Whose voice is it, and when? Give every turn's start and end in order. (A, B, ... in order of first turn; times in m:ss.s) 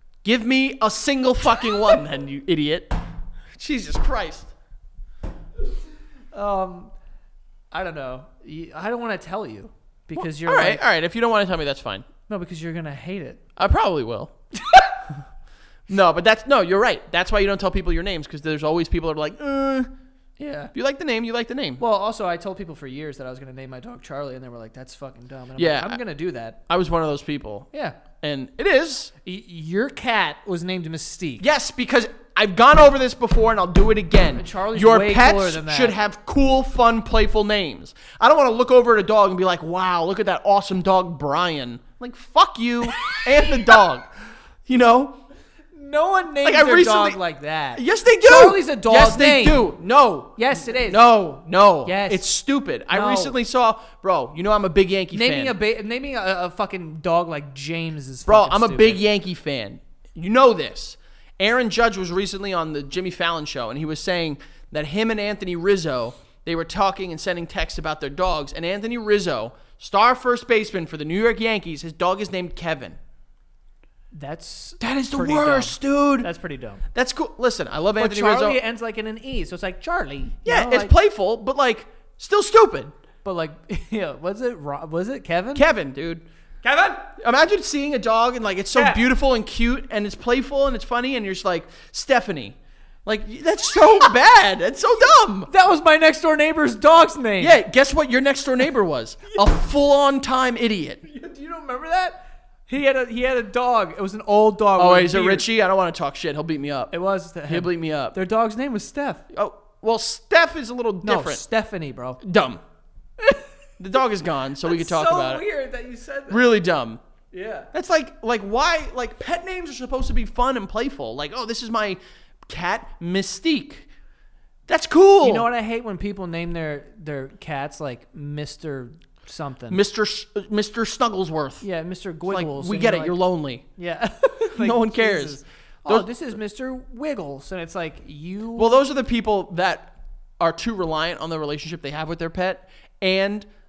0:00.2-0:03.0 A
0:03.5-0:04.5 A
0:06.3-0:06.9 B
0:07.7-0:10.8 B
0:10.2-0:12.1 A
0:12.3-0:13.4 B
0:13.6-0:14.4 A
0:14.7-0:14.9 B
0:15.9-0:19.9 A
0:20.4-0:20.7 B
0:20.7-0:21.8 A
0:21.8-0:26.6 B
0:25.6-0:26.0 A
0:26.7-0:29.1 A
0:27.7-0:28.0 B
0:29.2-0:31.5 B
0:31.4-0:44.1 A
0:34.4-0:36.0 B
0:43.0-0:43.8 B
0:44.7-0:45.2 A
0:45.7-0:49.7 B
0:46.4-0:47.2 A
0:47.7-0:55.6 A
0:50.4-0:51.1 B
0:51.8-0:52.3 B
0:52.9-0:53.4 B
0:55.1-0:59.0 B
0:58.3-1:13.0 A
1:14.1-1:16.8 B
1:14.8-1:16.3 A
1:16.9-1:18.6 A
1:18.0-1:20.9 B
1:20.4-1:22.9 A
1:23.2-1:25.7 B
1:25.6-1:26.3 A
1:26.6-1:27.2 B
1:27.2-1:35.5 A
1:28.8-1:29.0 B
1:35.5-1:37.6 B
1:37.4-1:41.0 A
1:41.0-1:45.5 B
1:44.8-1:46.9 A
1:46.9-1:49.2 B
1:47.5-1:48.2 A
1:49.3-1:51.4 A
1:51.0-1:52.2 B
1:52.2-1:52.6 A
1:53.2-1:53.5 B
1:53.8-1:55.4 A
1:54.6-1:56.5 B
1:56.3-1:57.0 A
1:57.3-1:57.7 B
1:57.7-2:03.9 A
2:04.7-2:05.5 A
2:05.2-2:09.8 B
2:09.7-2:11.6 A
2:11.6-2:13.2 B
2:12.3-2:13.6 A
2:13.8-2:18.8 B
2:14.6-2:16.1 A
2:18.6-2:23.5 A